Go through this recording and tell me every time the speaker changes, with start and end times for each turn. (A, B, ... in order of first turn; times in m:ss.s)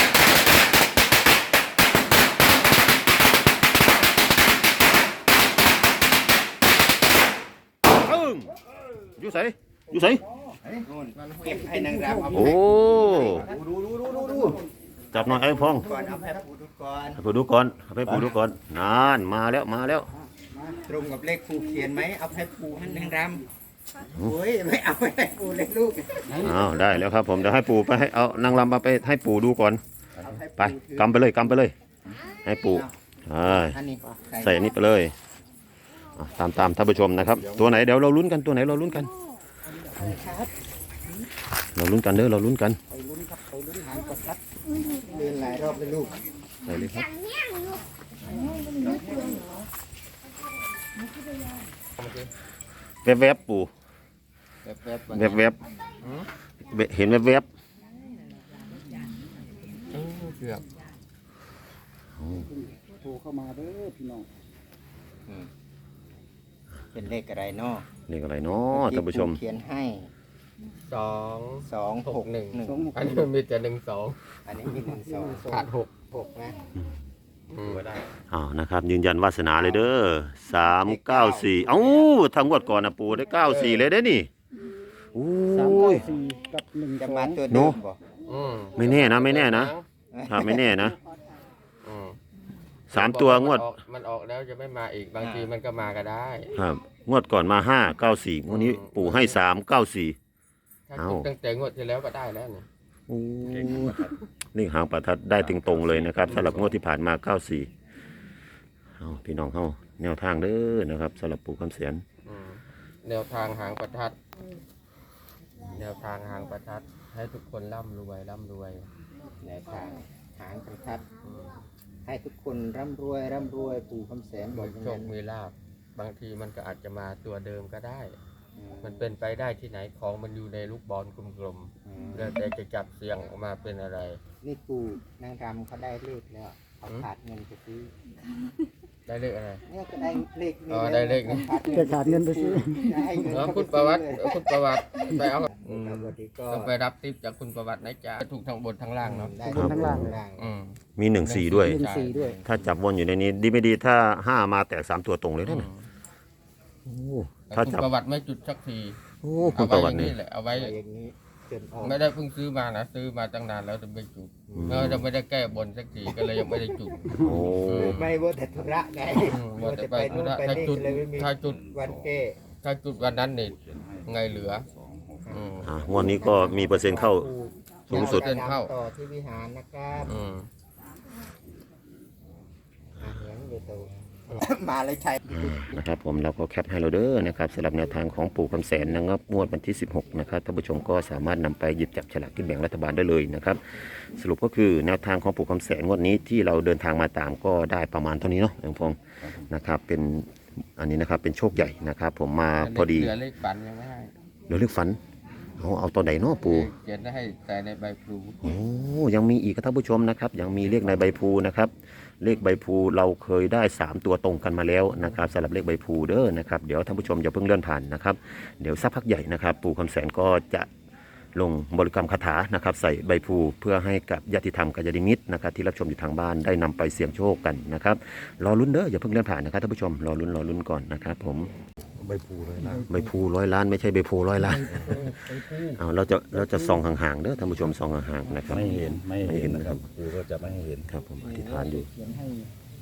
0:08.0-0:08.5 A
0:09.2-0:10.2 A
0:10.7-0:13.9 B
0:11.2-0:11.6 C
0:11.6-0:12.6 D
0:12.3-0:13.4 A
0:13.7-0:14.5 E
0:14.0-0:14.6 D
0:15.1-0:15.9 A
0:15.1-0:17.2 B
0:15.7-0:16.2 D
0:17.2-0:20.1 A
0:20.4-0:20.8 D
0:20.8-0:23.4 B
0:24.2-0:26.6 B
0:26.3-0:26.6 D
0:26.4-0:29.8 A
0:30.2-0:31.2 B
0:30.6-0:31.7 A
0:32.4-0:33.8 A
0:33.4-0:34.8 B
0:34.4-0:35.1 A
0:36.2-0:39.1 A
0:37.4-0:37.8 E
0:40.0-0:40.5 B
0:41.7-0:42.8 A
0:42.9-0:44.4 D
0:45.1-0:46.1 B
0:46.6-0:47.1 A
0:48.6-0:49.4 D
0:52.0-0:52.3 C
0:53.0-0:53.7 A
0:54.6-0:56.3 C
0:55.1-0:55.6 A
0:56.6-0:57.5 A
0:59.9-1:00.6 C
1:02.1-1:02.5 A
1:02.4-1:04.3 D
1:06.9-1:07.8 B
1:08.1-1:09.4 A
1:08.7-1:10.1 B
1:10.8-1:14.2 C
1:11.6-1:12.9 B
1:12.6-1:13.3 D
1:14.4-1:16.6 B
1:15.1-1:15.4 D
1:15.5-1:15.9 C
1:17.5-1:17.9 C
1:17.6-1:18.0 E
1:18.3-1:24.3 A
1:19.6-1:19.9 B
1:20.8-1:22.1 B
1:25.1-1:26.1 A
1:25.5-1:27.4 D
1:27.0-1:28.0 B
1:27.5-1:27.8 A
1:28.2-1:29.8 C
1:28.7-1:29.7 A
1:30.1-1:30.9 B
1:30.3-1:31.0 A
1:31.8-1:32.2 C
1:32.9-1:33.7 A
1:32.9-1:36.5 C
1:36.5-1:40.2 A
1:38.5-1:39.4 C
1:40.9-1:42.7 C
1:41.0-1:41.3 A
1:43.1-1:47.7 A
1:43.4-1:44.2 E
1:45.4-1:46.7 E
1:46.3-1:46.7 C
1:49.0-1:52.0 A
1:52.2-1:54.2 C
1:55.7-1:58.9 C
1:59.4-2:01.0 B
2:01.2-2:01.6 C
2:02.0-2:05.1 B
2:04.5-2:08.2 C
2:08.6-2:09.1 B
2:08.8-2:14.2 C
2:11.8-2:12.3 B
2:14.4-2:17.9 B
2:19.1-2:19.6 C
2:19.7-2:24.4 B
2:20.7-2:21.6 C
2:21.7-2:23.3 D
2:23.2-2:29.4 C
2:25.4-2:26.7 B
2:29.0-2:30.6 B
2:29.4-2:30.2 D
2:29.5-2:30.1 A
2:30.4-2:32.1 C
2:31.0-2:31.8 A
2:31.6-2:32.4 D
2:32.0-2:32.6 B
2:32.4-2:35.7 A
2:35.4-2:35.8 C
2:36.8-2:37.8 A
2:37.5-2:39.0 C
2:39.2-2:40.2 A
2:39.5-2:40.7 C
2:40.5-2:42.0 B
2:41.8-2:48.1 C
2:44.6-2:45.0 A
2:46.7-2:47.0 B
2:47.1-2:48.1 A
2:47.7-2:52.4 B
2:49.2-2:51.6 C
2:50.1-2:50.4 E
2:51.4-2:52.1 E
2:52.6-2:54.7 C
2:53.0-2:56.2 E
2:55.3-2:55.7 C
2:55.3-3:00.2 B
2:55.6-2:57.3 A
2:57.9-2:58.3 A
2:57.9-2:58.7 C
3:00.1-3:00.5 C
3:03.0-3:05.5 B
3:05.3-3:23.1 A
3:22.6-3:24.1 C
3:24.5-3:25.0 A
3:25.6-3:26.7 A
3:26.4-3:28.5 C
3:28.4-3:40.7 A
3:41.3-3:51.5 A
3:52.0-3:52.9 E
3:52.7-3:53.0 D
3:52.9-3:59.8 A
3:54.4-3:55.8 D
3:56.4-3:56.7 D
3:58.5-4:00.9 E
3:58.5-3:58.9 D
4:00.9-4:01.9 A
4:01.2-4:02.5 D